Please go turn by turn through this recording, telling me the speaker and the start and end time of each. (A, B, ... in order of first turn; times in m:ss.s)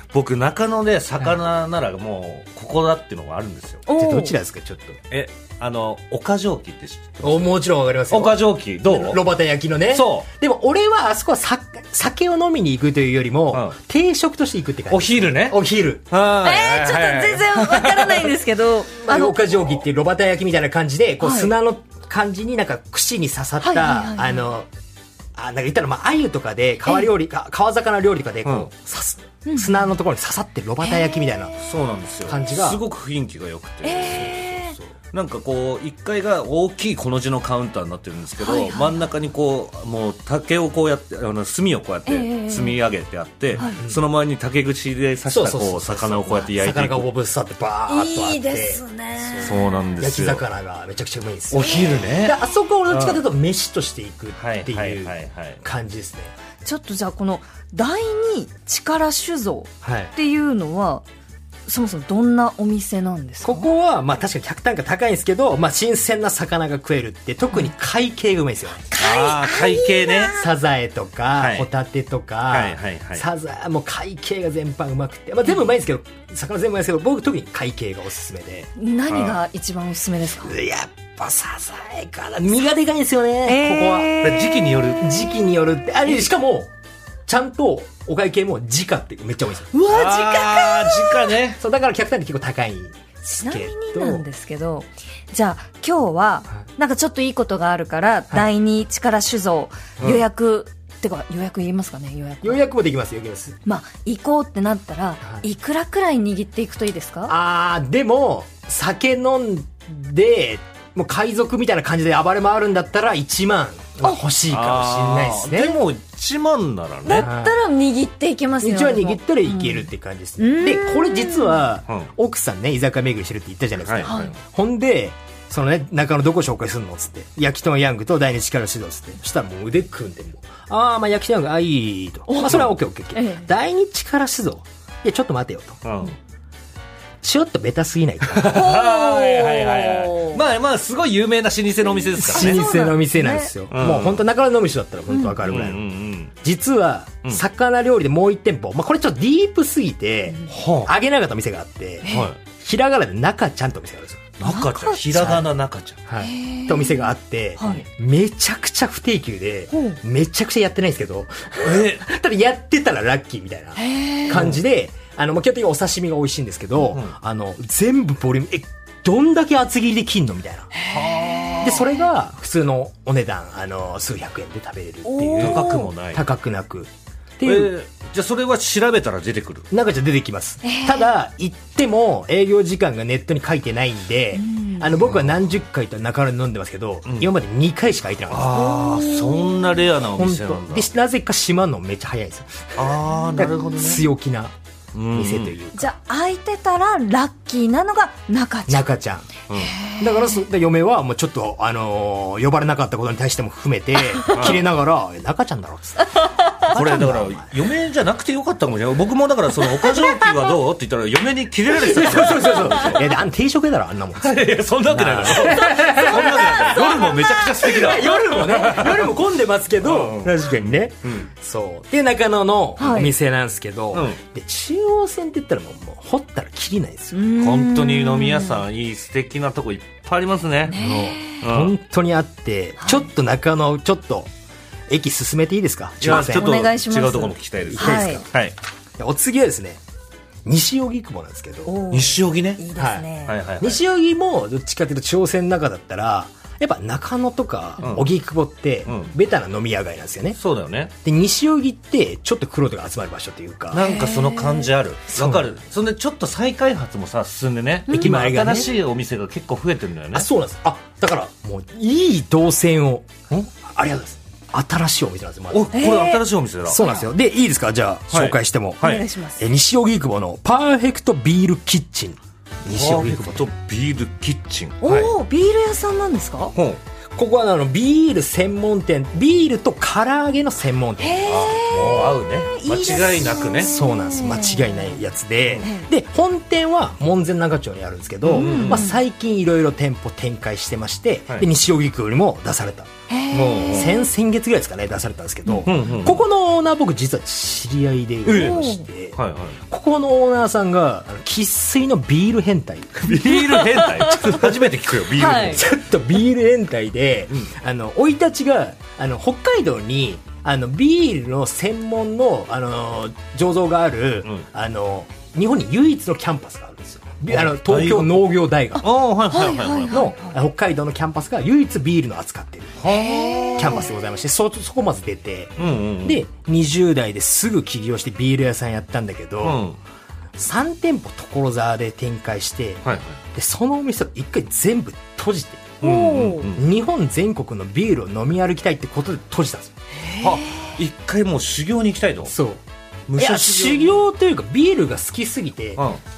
0:00.1-0:03.8 A
0:03.9-0:04.3 B
0:03.9-0:05.0 C
0:05.1-0:07.5 A
0:07.2-0:16.0 C
0:08.1-0:09.2 A
0:09.9-0:10.3 A
0:13.5-0:13.8 A
0:14.9-0:15.6 A
0:16.1-0:18.3 A
0:16.4-0:19.4 B
0:19.0-0:24.7 C
0:21.2-0:21.5 B
0:23.6-0:24.5 B
0:25.3-0:31.6 C
0:29.4-0:29.9 B
0:30.8-0:31.5 B
0:31.6-0:47.1 A
0:32.2-0:32.8 C
0:33.8-0:34.8 B
0:38.4-0:39.1 B
0:42.1-0:42.8 B
0:43.6-0:44.0 C
0:45.3-0:56.3 C
0:47.9-0:49.8 B
0:49.4-0:50.4 A
0:51.5-0:52.4 A
0:51.6-0:52.0 B
0:52.9-0:53.2 A
0:54.4-0:55.6 A
0:56.6-1:01.0 B
0:59.8-1:00.1 C
1:01.7-1:03.7 B
1:03.4-1:08.8 C
1:08.9-1:10.4 B
1:09.0-1:10.3 A
1:10.4-1:18.7 C
1:11.4-1:11.7 A
1:12.5-1:13.2 A
1:18.8-1:20.5 B
1:19.1-1:19.4 A
1:20.4-1:26.7 C
1:23.4-1:24.8 B
1:24.2-1:25.3 A
1:27.3-1:29.7 C
1:29.7-1:31.4 B
1:29.8-1:31.6 A
1:31.6-1:34.2 C
1:33.2-1:42.6 B
1:42.4-1:43.6 C
1:43.6-1:47.3 B
1:47.3-1:55.8 C
1:54.5-1:57.3 A
1:57.0-1:59.9 B
1:57.1-1:57.6 C
1:58.6-2:15.8 C
2:00.4-2:01.6 B
2:03.8-2:04.3 A
2:04.0-2:04.3 B
2:12.3-2:12.6 B
2:13.1-2:13.5 B
2:15.8-2:16.1 A
2:17.2-2:18.6 C
2:18.3-2:22.6 A
2:18.5-2:20.4 B
2:22.1-2:23.5 B
2:22.2-2:34.5 C
2:23.7-2:24.2 A
2:25.4-2:26.3 A
2:30.5-2:30.9 A
2:32.0-2:32.3 B
2:32.0-2:32.4 A
2:34.4-2:36.0 A
2:34.4-2:35.0 B
2:35.1-2:35.5 C
2:36.1-2:50.7 C
2:36.2-2:37.8 B
2:39.7-2:40.0 B
2:41.6-2:42.0 A
2:43.8-2:44.4 B
2:44.3-2:44.6 A
2:50.7-2:52.0 B
2:50.8-2:51.8 A
2:51.6-2:57.7 C
2:55.0-2:55.9 B
2:55.4-2:56.2 A
2:57.4-2:59.7 A
2:59.7-3:08.8 C
3:00.6-3:01.1 B
3:04.3-3:04.9 B
3:08.3-3:10.9 A
3:08.5-3:09.8 B
3:10.0-3:14.5 C
3:12.8-3:14.0 A
3:13.1-3:14.0 B
3:14.9-3:15.5 A
3:15.1-3:15.9 C
3:15.7-3:18.9 B
3:18.7-3:19.3 C
3:19.5-3:20.4 B
3:20.0-3:27.5 C
3:24.1-3:24.5 B
3:24.3-3:24.6 A
3:26.1-3:26.7 B
3:26.7-3:33.1 A
3:29.8-3:30.3 B
3:31.7-3:47.2 C
3:34.2-3:39.2 A
3:35.5-3:37.6 B
3:39.8-3:41.3 A
3:42.8-3:43.1 B
3:43.9-3:44.2 A
3:47.1-3:48.6 B
3:47.4-3:50.8 A
3:50.6-3:51.4 B
3:50.8-3:54.3 C
3:51.4-3:51.7 A
3:52.8-3:53.1 B
3:54.9-3:56.5 C
3:56.0-3:58.5 A
3:56.1-3:58.2 B
3:57.7-3:58.3 C
3:59.0-3:59.8 C
4:00.4-4:01.8 C
4:01.6-4:03.4 B
4:01.9-4:02.6 A
4:02.8-4:03.0 C
4:03.2-4:03.8 A
4:03.6-4:10.4 C
4:07.8-4:08.1 A
4:10.4-4:10.9 A
4:11.0-4:13.8 C
4:13.7-4:20.3 A
4:13.8-4:14.7 B
4:15.1-4:15.5 C
4:17.9-4:18.7 C
4:20.1-4:25.7 C
4:25.5-4:26.8 A
4:25.7-4:26.2 B
4:26.7-4:33.5 C
4:26.7-4:27.0 B
4:28.1-4:29.0 A
4:28.8-4:29.5 B
4:32.7-4:35.1 A
4:34.8-4:36.6 B
4:37.2-4:42.2 C
4:41.0-4:45.0 B
4:41.2-4:43.7 A
4:43.6-5:03.1 C
4:48.2-4:48.9 A
4:48.3-4:49.0 B
4:53.1-4:54.1 B
4:53.3-4:53.9 A
4:55.6-4:56.2 A
4:58.2-4:59.6 A
4:58.3-4:58.8 B
5:03.0-5:05.7 A
5:03.1-5:04.4 B
5:05.1-5:05.6 B
5:05.5-5:18.8 C
5:17.3-5:20.0 A
5:19.3-5:20.4 B
5:19.9-5:22.8 C
5:22.8-5:23.8 A
5:22.8-5:23.9 B
5:23.6-5:29.6 C
5:25.6-5:26.2 A
5:29.4-5:29.8 A
5:30.4-5:35.8 C
5:32.8-5:33.2 A
5:35.8-5:36.5 B
5:35.8-5:36.6 A
5:36.5-5:39.7 C
5:40.0-5:40.7 B
5:40.2-5:42.3 A
5:42.3-5:42.6 C
5:43.1-5:44.0 A
5:43.1-5:45.8 C